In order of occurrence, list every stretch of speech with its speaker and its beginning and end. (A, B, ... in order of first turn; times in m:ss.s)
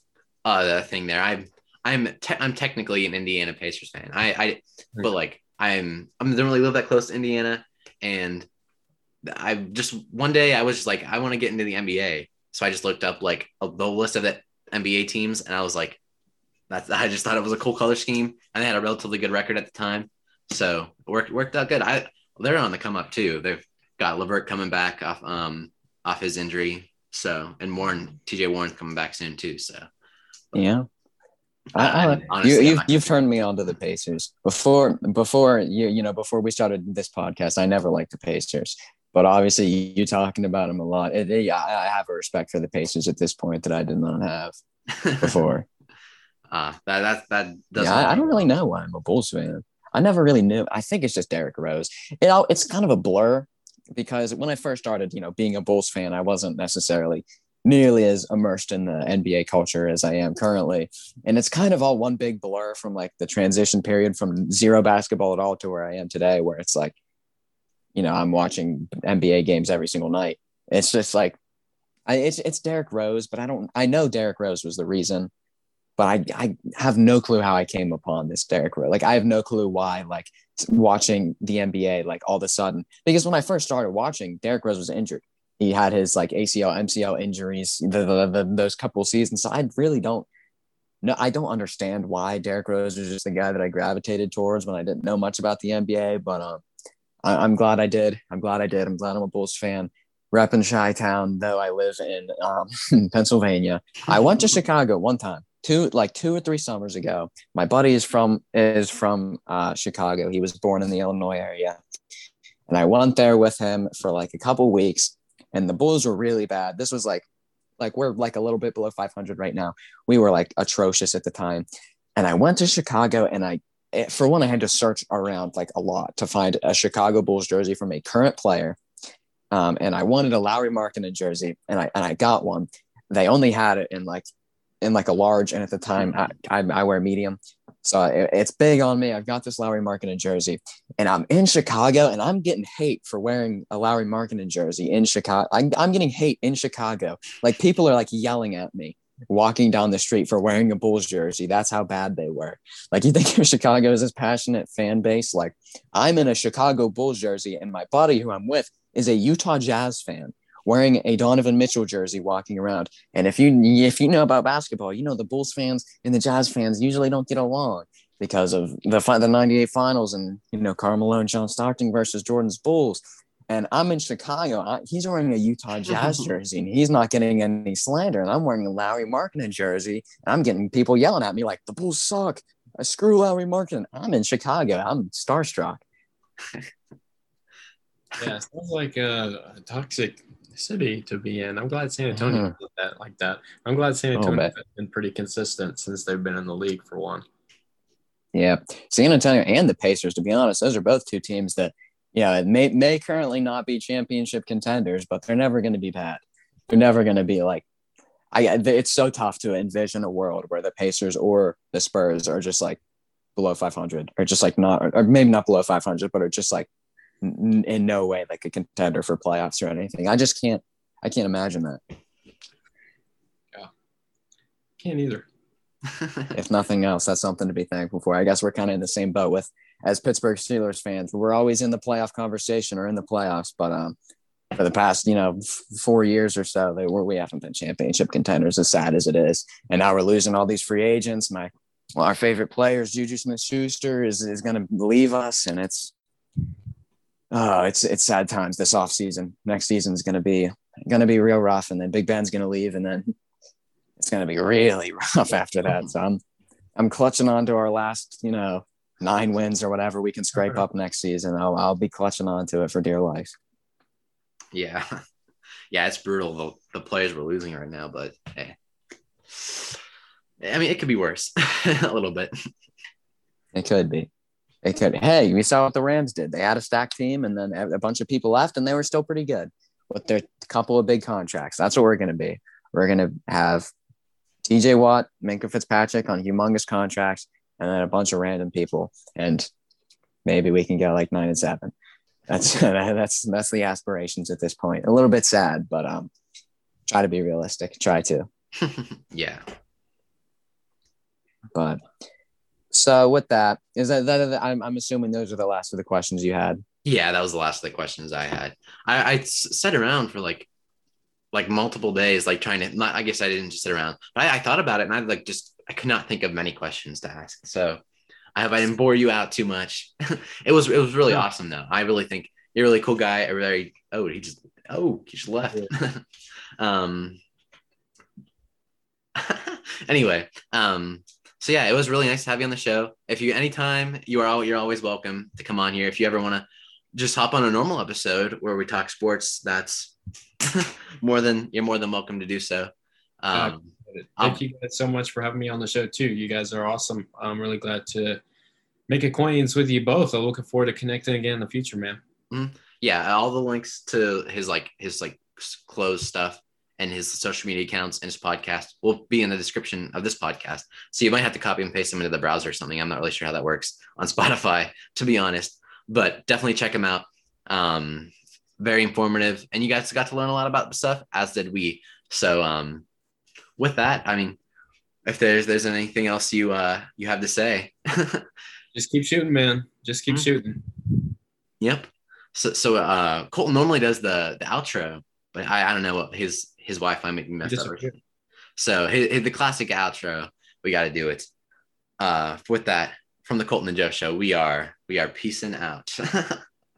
0:00.4-0:08.5 A
0:09.2-0:16.0 A
0:16.7-0:29.9 A
0:30.6-0:30.9 B
0:31.7-0:44.6 B
0:31.8-0:33.2 A
0:45.2-0:45.7 B
0:46.5-0:48.5 A
0:47.8-1:07.0 B
1:08.0-1:11.4 B
1:12.1-1:15.3 B
1:16.0-1:30.3 B
1:31.0-1:36.6 B
1:37.2-1:51.8 B
1:52.7-1:57.2 B
1:57.8-2:01.6 B
2:02.2-2:08.8 B
2:09.5-2:14.3 B
2:14.8-3:05.8 B
3:08.2-3:17.2 C
3:12.1-3:12.5 B
3:14.2-3:14.5 B
3:18.3-3:27.6 B
3:28.3-3:32.8 B
3:33.4-3:36.7 B
3:37.2-3:41.8 B
3:44.8-3:45.3 C
3:46.3-3:54.0 B
3:54.6-4:05.9 B
4:07.3-4:13.1 B
4:14.0-4:16.2 B
4:16.8-4:23.4 B
4:24.5-4:25.0 A
4:25.7-4:28.6 A
4:29.3-4:29.8 A
4:30.4-4:32.5 A
4:33.5-4:34.1 B
4:34.6-4:43.7 B
4:44.4-4:49.5 B
4:50.2-4:51.7 B
4:52.3-4:56.1 B
4:56.9-4:58.3 B
4:59.1-4:59.4 A
5:01.6-5:01.8 B
5:02.7-5:06.6 B
5:06.8-5:10.5 A
5:11.3-5:17.8 A
5:18.4-5:27.2 A
5:29.2-5:44.4 A
5:43.3-5:48.2 C
5:48.9-5:52.0 C
5:52.3-6:12.8 A
6:13.6-6:14.4 A
6:15.0-6:18.3 A
6:18.8-6:21.0 C
6:21.6-6:27.9 A
6:27.4-6:27.9 C
6:28.6-6:31.3 A
6:32.0-6:36.4 A